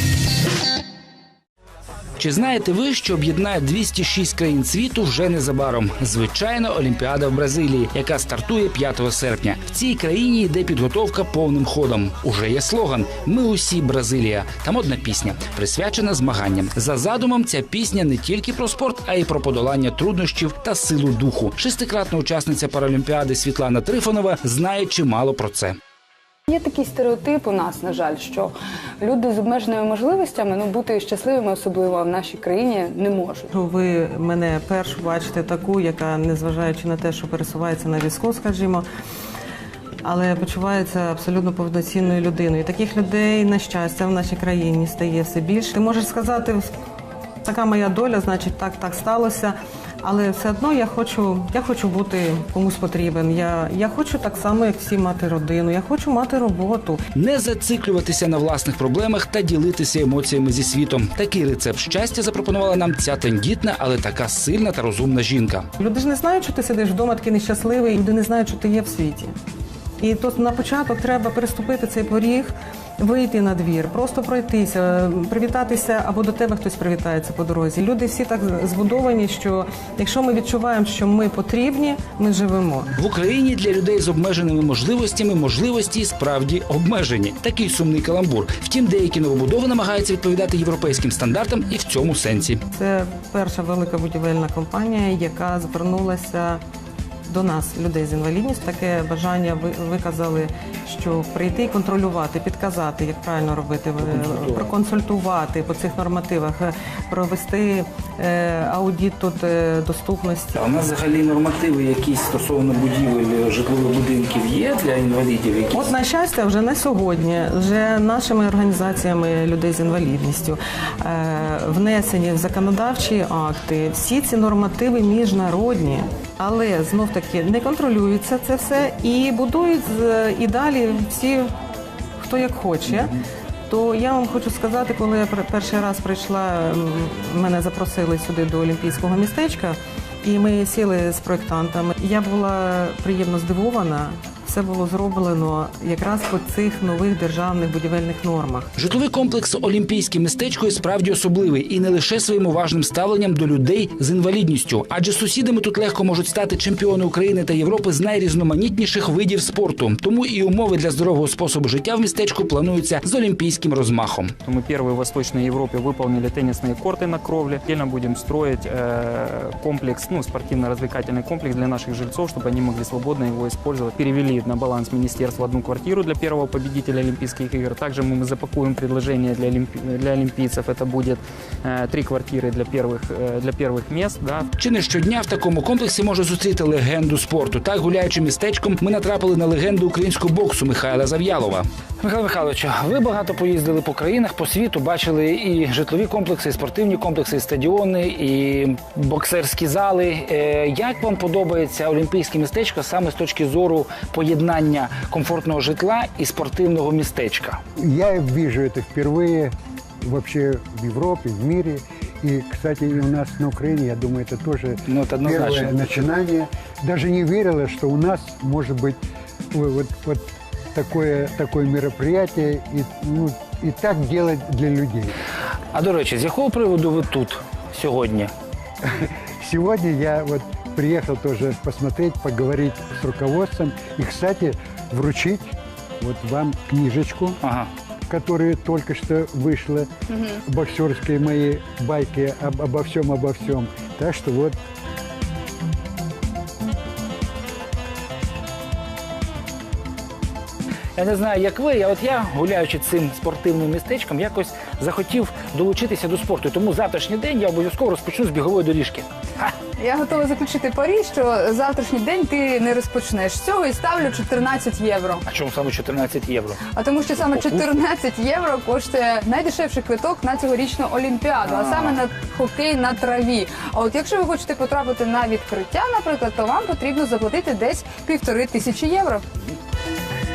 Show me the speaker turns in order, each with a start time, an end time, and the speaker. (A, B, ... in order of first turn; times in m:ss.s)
0:02.2-0:25.8 A
0:26.5-0:33.5 B
0:33.5-0:38.8 C
0:40.0-0:46.7 C
0:47.4-0:57.0 C
0:57.1-1:05.7 A
1:05.8-1:09.3 C
1:10.0-1:22.9 C
1:23.0-1:32.6 A
1:32.7-1:36.6 C
1:37.2-1:50.6 C
1:44.0-1:44.7 A
1:50.5-1:55.9 A
1:55.7-2:11.5 C
2:12.2-2:13.1 C
2:13.7-2:28.7 C
2:28.8-2:44.3 A
2:44.4-3:04.5 D
3:04.6-3:27.6 A
3:27.8-3:39.0 E
3:34.8-3:36.0 A
3:39.5-3:40.2 E
3:40.7-3:45.1 E
3:45.7-3:48.3 A
3:49.4-3:57.4 E
3:57.4-3:57.7 A
3:58.1-3:59.9 E
4:00.4-4:04.6 E
4:11.0-4:19.5 A
4:19.8-4:25.2 B
4:25.2-4:26.6 A
4:26.8-4:39.2 B
4:27.1-4:27.8 A
4:31.4-4:32.0 A